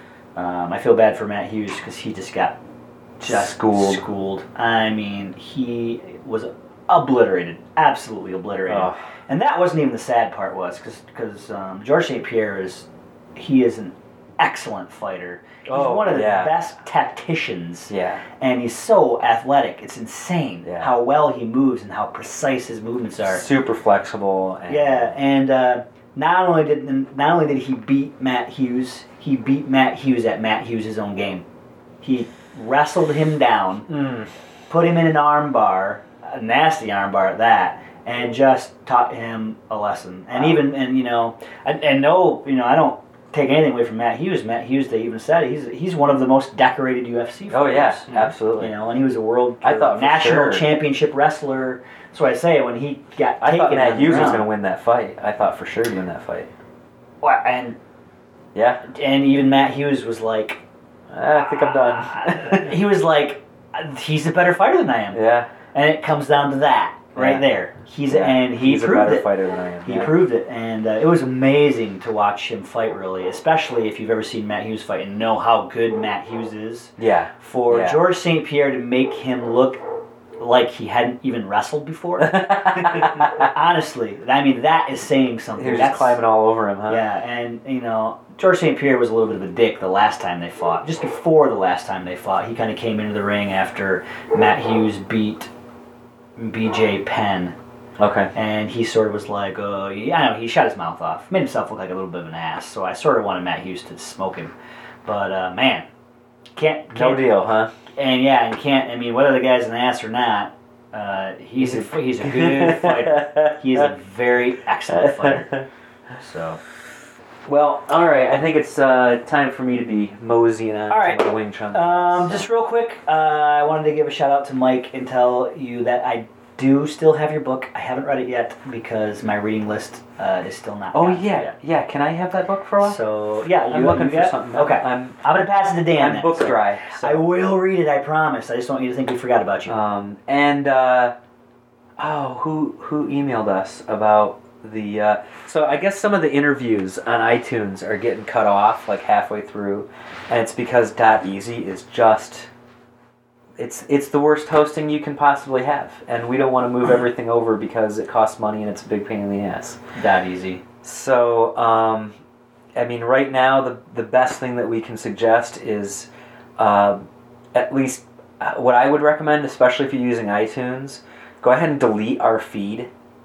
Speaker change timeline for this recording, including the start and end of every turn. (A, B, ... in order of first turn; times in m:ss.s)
0:00.4-0:02.6 A
0:03.2-0:04.0 B
0:03.2-0:23.4 A
0:08.7-0:09.0 B
0:15.7-0:16.6 B
0:17.9-0:18.2 B
0:20.6-0:20.9 B
0:23.3-0:25.2 B
0:24.7-0:31.4 A
0:32.0-0:33.9 A
0:33.9-0:34.3 B
0:34.7-0:54.5 A
0:40.3-0:40.6 B
0:47.5-0:48.8 B
0:49.6-0:50.7 B
0:53.4-0:56.5 B
0:57.2-0:57.8 A
0:58.5-0:58.8 B
0:58.8-1:00.6 A
1:01.1-1:02.7 B
1:01.7-1:09.3 A
1:05.1-1:05.5 B
1:07.2-1:10.3 B
1:09.8-1:19.8 A
1:17.0-1:18.0 B
1:20.4-1:26.2 A
1:22.2-1:23.5 B
1:25.6-1:27.0 B
1:26.9-1:35.5 A
1:36.4-1:37.6 A
1:38.0-1:38.3 B
1:38.3-1:44.5 A
1:45.0-1:45.9 A
1:46.6-1:47.3 A
1:46.9-1:47.7 B
1:48.0-1:55.6 A
1:51.6-1:53.8 B
1:54.9-1:55.6 B
1:56.2-1:56.6 A
1:57.5-2:02.5 B
2:00.9-2:11.5 A
2:10.9-2:15.2 B
2:12.8-2:19.8 A
2:16.0-2:17.3 B
2:19.7-2:21.2 B
2:22.0-2:32.5 B
2:33.6-2:39.8 B
2:40.0-2:40.6 A
2:40.8-2:42.2 B
2:42.8-2:47.0 B
2:47.5-2:52.9 B